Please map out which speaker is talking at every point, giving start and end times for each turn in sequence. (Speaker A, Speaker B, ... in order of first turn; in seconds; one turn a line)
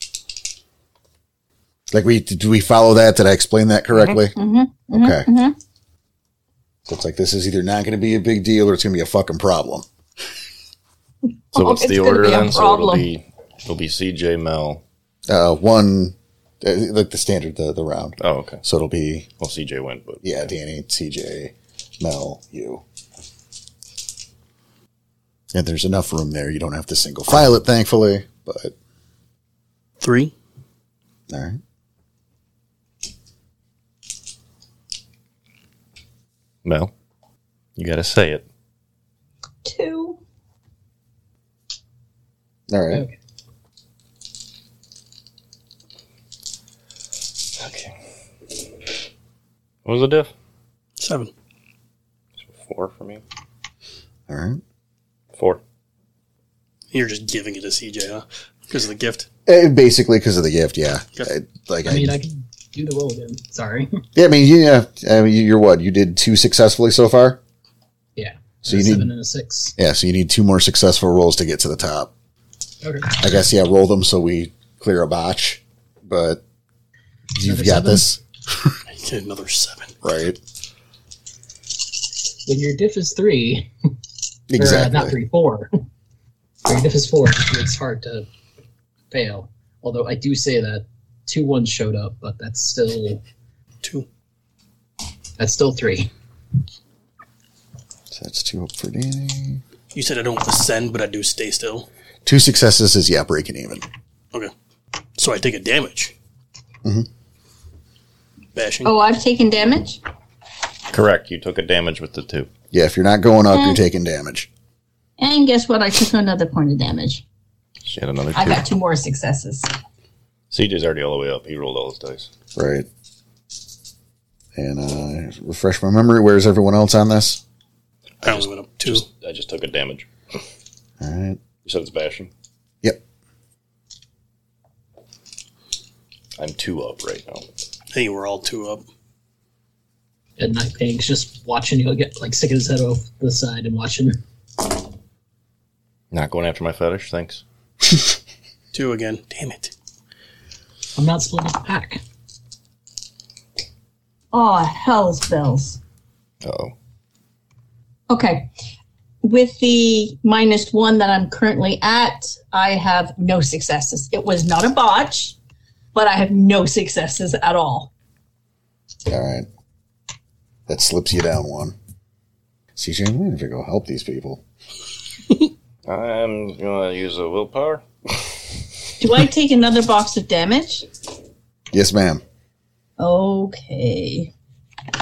Speaker A: 1.9-4.3
Speaker B: 4.3-5.6
Speaker A: 4.9-5.3
Speaker A: 6.9-9.9
Speaker B: 11.5-13.1
Speaker C: 11.5-14.8
Speaker A: 15.3-19.3
Speaker C: 18.2-18.6
Speaker C: 19.4-20.4
Speaker A: 20.2-22.8
Speaker A: 25.5-28.7
Speaker D: 30.0-30.3
Speaker A: 31.3-31.6
Speaker C: 36.6-36.9
Speaker C: 37.8-38.4
Speaker B: 39.6-40.2
Speaker A: 42.7-43.1
Speaker C: 47.6-47.9
Speaker C: 49.9-50.3
Speaker D: 51.0-51.3
Speaker C: 52.4-53.2
Speaker A: 54.3-54.6
Speaker D: 56.9-59.3
Speaker A: 59.5-62.1
Speaker E: 61.9-64.0
Speaker A: 64.2-67.4
Speaker E: 68.2-69.8
Speaker A: 68.6-69.1
Speaker A: 69.8-72.1
Speaker E: 72.8-73.1
Speaker A: 73.2-76.4
Speaker A: 77.3-78.8
Speaker E: 77.4-78.0
Speaker D: 78.9-80.0
Speaker A: 80.0-80.4
Speaker E: 82.5-83.7
Speaker A: 84.5-85.2
Speaker E: 84.6-85.7
Speaker E: 86.7-88.3
Speaker E: 89.1-93.2
Speaker E: 95.4-96.1
Speaker A: 98.1-99.6
Speaker D: 99.9-101.9
Speaker A: 102.2-103.9
Speaker D: 105.2-106.1
Speaker D: 108.5-108.9
Speaker B: 108.8-110.0
Speaker C: 110.9-112.5
Speaker A: 112.7-114.5
Speaker B: 113.5-113.8
Speaker B: 115.2-117.2
Speaker C: 117.9-118.7
Speaker B: 118.3-119.7
Speaker C: 120.5-122.3
Speaker A: 122.6-122.9
Speaker A: 124.6-127.4
Speaker C: 128.2-130.1
Speaker D: 128.2-129.1
Speaker A: 131.0-131.4
Speaker C: 131.6-132.3
Speaker C: 136.4-137.4
Speaker D: 137.9-138.8
Speaker E: 140.4-144.2
Speaker C: 146.1-147.4
Speaker D: 148.7-149.7
Speaker E: 151.0-152.0
Speaker B: 154.3-155.8
Speaker C: 156.4-156.7
Speaker B: 158.1-158.5
Speaker B: 159.2-165.3
Speaker B: 165.9-167.9
Speaker A: 169.1-169.5
Speaker A: 170.7-171.8
Speaker A: 172.8-174.4
Speaker C: 175.9-178.4
Speaker B: 179.0-180.9
Speaker A: 181.7-182.2
Speaker B: 183.0-184.3